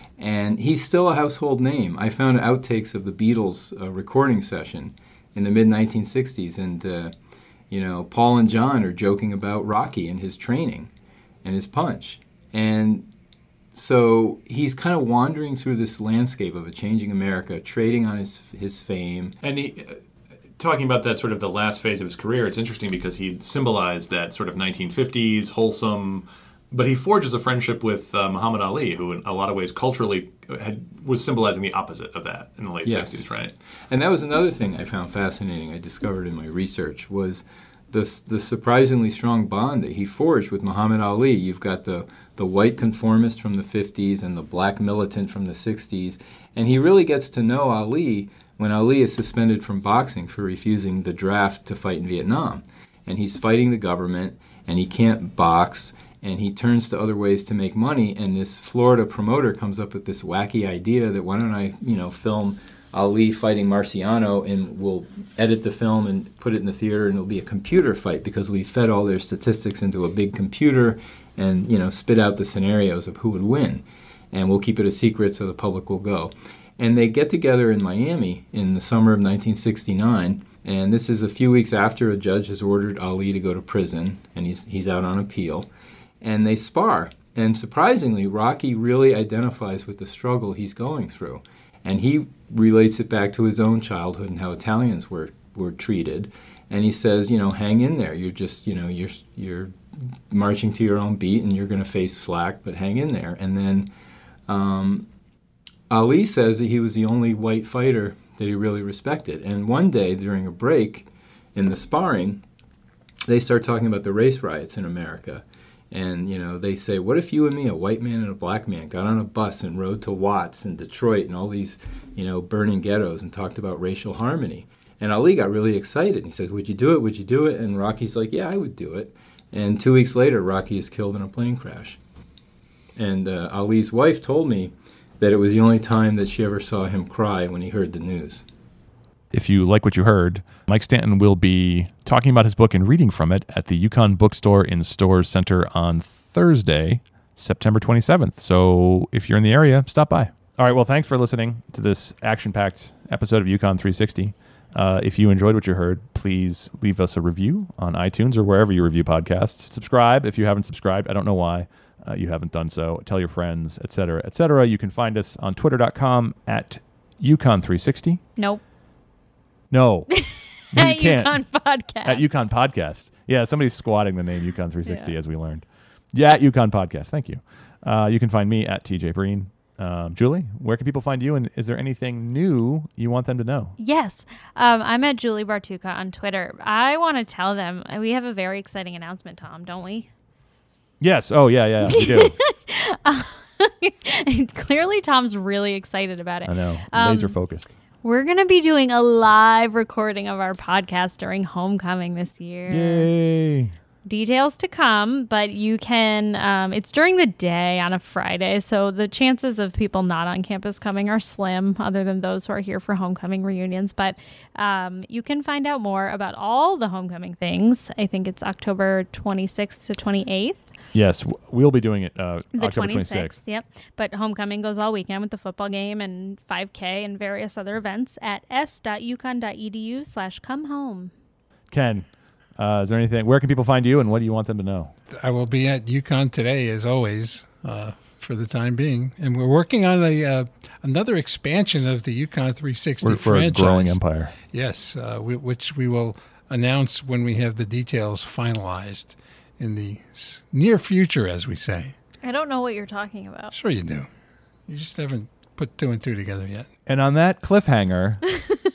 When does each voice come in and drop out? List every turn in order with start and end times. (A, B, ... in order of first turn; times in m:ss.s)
0:00.2-0:07.1 A
0:07.7-0:10.9 A
0:11.4-0:13.1 A
0:13.7-0:19.4 A
0:19.4-0:20.0 B
0:20.6-0:33.5 B
0:32.9-0:33.2 A
0:33.9-1:25.7 A
1:26.2-1:39.7 A
1:40.3-1:43.9 A
1:44.5-1:45.1 A
1:45.9-1:52.4 A
1:53.3-2:12.0 A
2:13.0-2:18.5 A
2:19.3-2:48.2 B
2:49.7-2:50.1 B
2:50.2-2:52.2 C
2:50.7-2:51.4 B
2:52.0-3:03.8 B
2:54.9-2:55.1 C
3:03.8-3:10.1 C
3:11.0-3:12.4 B
3:11.9-3:17.4 C
3:16.5-3:17.7 B
3:18.0-3:23.1 C
3:22.7-3:23.7 B
3:24.0-3:40.7 C
3:40.9-3:43.4 B
3:42.6-3:51.1 C
3:51.7-3:52.1 B
3:52.6-3:54.9 B
3:55.1-4:04.0 D
4:03.0-4:04.3 B
4:04.5-4:11.9 D
4:12.2-4:13.5 C
4:13.5-4:14.1 D
4:14.7-4:16.7 D
4:16.9-4:18.2 B